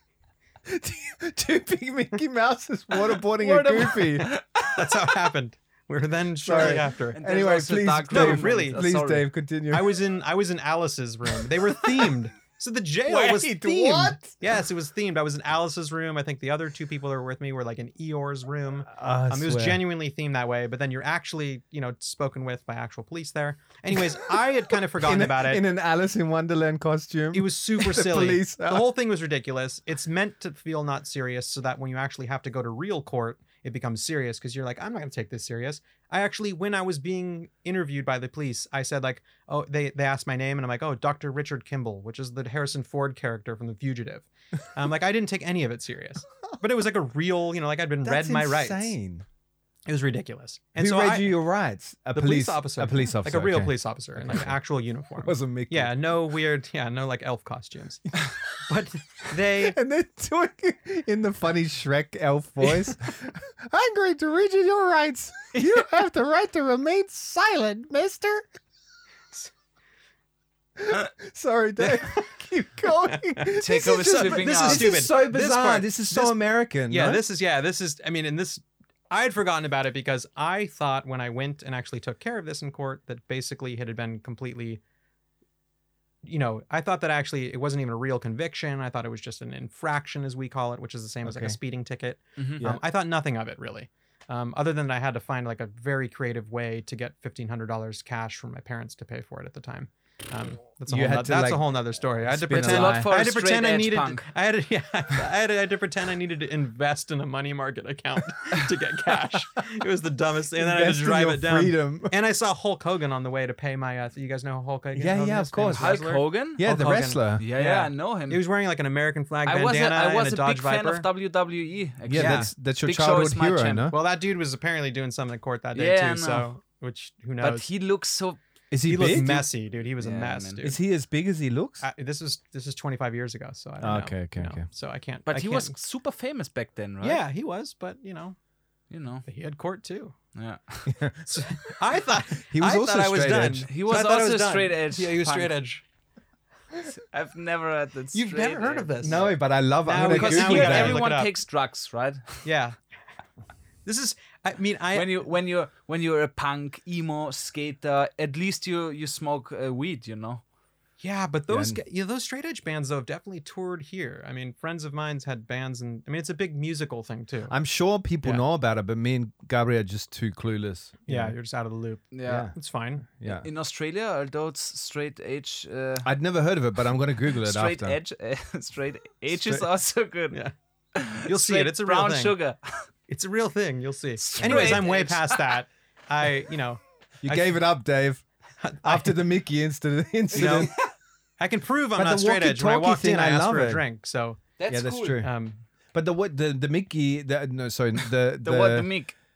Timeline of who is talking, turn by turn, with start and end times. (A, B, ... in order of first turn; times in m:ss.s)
0:00.7-0:04.3 A
0:03.3-0:04.7 B
0:04.7-0:07.2 C
0:06.4-0:10.0 A
0:06.6-0:09.2 B
0:08.1-0:08.8 C
0:09.7-0:25.6 C
0:13.1-0:14.3 A
0:18.9-0:19.8 A
0:24.0-0:24.4 A
0:25.0-0:28.9 A
0:27.3-0:49.0 C
0:48.0-0:49.2 A
0:49.9-0:51.4 C
0:50.8-0:54.6 A
0:52.1-0:59.8 C
0:55.2-0:55.9 A
0:59.6-1:08.5 A
1:10.8-1:17.2 A
1:11.8-1:12.3 C
1:13.0-1:24.8 C
1:13.6-1:15.0 B
1:26.2-2:01.1 C
1:31.2-1:31.6 A
1:40.9-1:43.1 A
1:42.5-1:44.2 B
1:50.6-1:52.1 A
1:54.9-1:56.0 A
1:55.7-1:56.6 B
1:56.6-1:57.4 A
1:57.4-1:58.4 B
1:59.4-2:03.9 B
2:02.0-2:04.0 A
2:02.2-2:02.5 C
2:03.9-2:07.7 C
2:05.7-2:06.5 B
2:07.4-2:08.4 B
2:08.7-2:09.5 A
2:08.8-2:10.8 C
2:10.0-2:10.6 B
2:10.6-2:11.8 A
2:11.8-2:15.8 C
2:13.8-2:14.6 A
2:15.3-2:17.2 B
2:17.0-2:18.4 C
2:18.9-2:19.2 B
2:19.2-2:20.1 C
2:20.3-2:20.9 B
2:20.8-2:21.3 A
2:21.2-2:25.8 C
2:22.1-2:23.7 A
2:23.7-2:25.6 B
2:26.8-2:29.4 B
2:28.1-2:29.3 C
2:29.0-2:31.1 A
2:29.8-2:31.4 C
2:29.9-2:32.4 B
2:32.4-2:32.7 C
2:33.8-2:35.2 C
2:34.9-2:40.4 B
2:41.0-2:47.5 C
2:41.5-2:41.8 A
2:47.5-2:51.4 A
2:51.1-2:53.0 C
2:52.1-2:52.5 B
2:52.2-2:52.5 A
2:53.1-2:53.5 A
2:53.2-2:56.1 B
2:56.0-2:58.0 A
2:57.4-3:00.4 B
2:59.3-2:59.6 A
3:00.9-3:02.6 B
3:01.2-3:02.4 C
3:03.1-3:07.6 C
3:04.2-3:05.5 B
3:04.4-3:04.8 A
3:07.2-3:08.2 A
3:08.6-3:09.2 C
3:08.8-3:10.7 A
3:10.3-3:10.7 C
3:10.4-3:10.8 B
3:11.4-3:14.4 C
3:12.0-3:13.8 A
3:14.6-3:15.2 B
3:14.7-3:15.3 A
3:15.2-3:15.6 C
3:15.9-3:18.9 A
3:18.4-3:19.1 B